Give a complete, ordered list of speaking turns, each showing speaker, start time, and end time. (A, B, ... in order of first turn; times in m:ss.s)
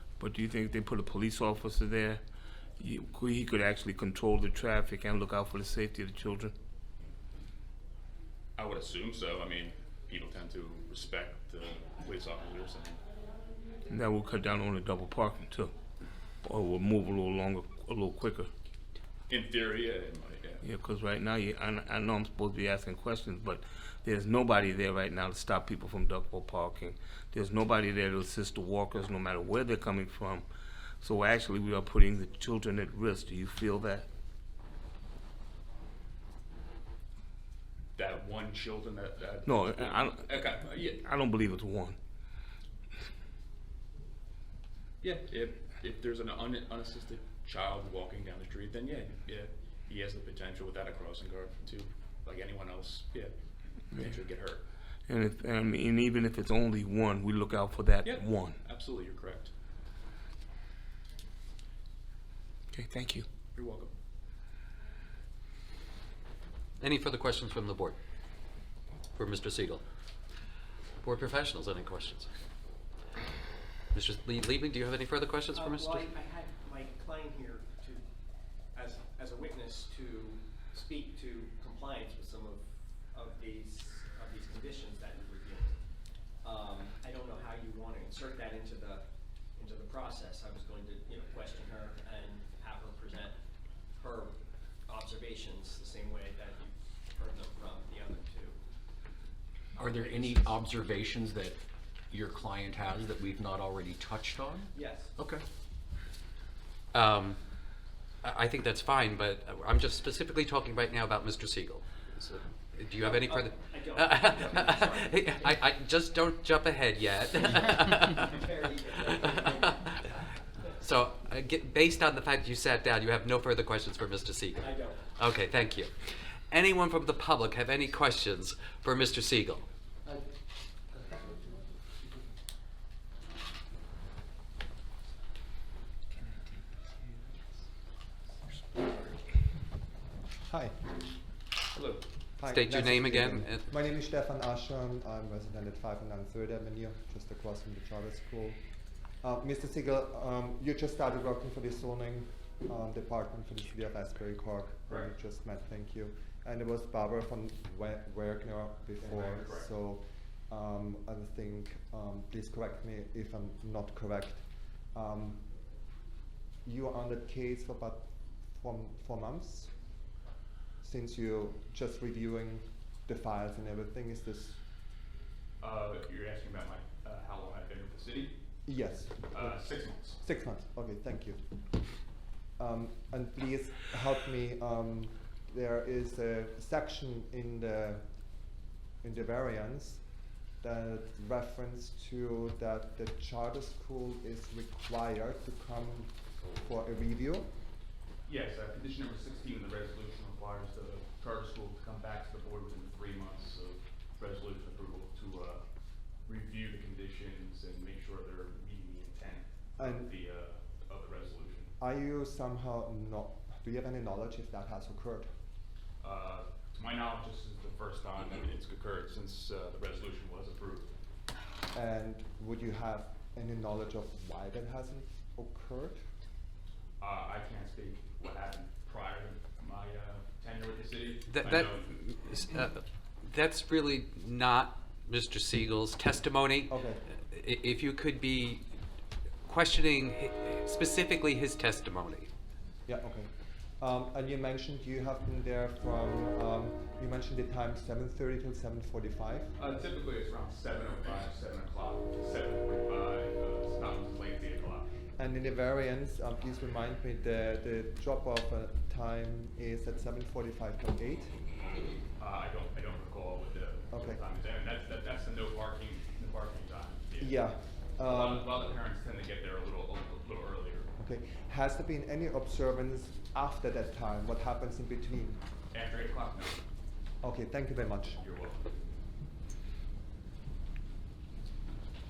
0:00.2-0:02.2 A
0:02.8-0:06.5 A
0:08.6-0:13.0 B
0:13.9-0:15.7 A
0:16.4-0:18.5 A
0:19.3-0:20.6 B
0:20.6-0:30.4 A
0:31.0-0:34.1 A
0:38.0-0:41.0 B
0:39.4-0:42.0 A
0:45.0-0:53.3 B
0:53.9-0:54.6 B
0:55.1-0:58.6 A
0:58.0-0:59.5 B
1:02.7-1:03.2 A
1:03.5-1:03.9 B
1:06.8-1:08.0 C
1:09.1-1:09.8 C
1:11.0-1:12.3 C
1:13.9-1:16.1 C
1:15.5-1:18.0 D
1:18.7-1:25.8 D
1:26.4-1:29.0 D
1:29.6-1:33.4 D
1:34.0-1:34.3 D
1:34.8-1:38.6 D
1:39.8-1:41.5 E
1:39.8-1:40.5 D
1:42.1-1:44.6 E
1:44.7-1:45.1 D
1:46.9-1:47.4 C
1:48.2-1:58.3 C
1:53.0-1:55.6 D
1:58.3-2:00.8 D
1:59.1-2:00.1 C
2:00.8-2:05.9 C
2:04.6-2:05.2 D
2:06.5-2:09.6 C
2:20.5-2:20.9 F
2:21.7-2:22.0 B
2:22.4-2:28.6 F
2:22.5-2:23.6 C
2:29.2-2:45.5 F
2:39.0-2:39.7 B
2:46.6-2:49.7 F
2:50.8-2:54.6 F
2:55.6-2:58.3 B
2:58.6-3:01.4 F
2:59.3-3:00.2 B
3:02.6-3:08.0 F
3:09.0-3:10.0 F
3:10.6-3:17.5 F
3:18.2-3:25.6 B
3:26.2-3:31.7 B
3:29.8-3:30.1 F
3:31.8-3:35.3 F
3:36.0-3:40.9 B
3:41.7-3:46.0 F
3:47.0-3:51.9 B
3:51.3-3:56.7 C
3:56.7-3:57.0 F
3:57.3-3:58.7 C
3:59.4-4:02.3 C
4:02.8-4:09.5 F
4:09.6-4:14.9 B
4:15.2-4:21.4 F
4:22.2-4:27.5 B
4:23.9-4:24.2 F
4:27.2-4:28.5 F
4:28.0-4:30.9 B
4:31.0-4:35.4 F
4:35.7-4:36.6 B
4:37.2-4:38.2 F
4:38.2-4:38.6 B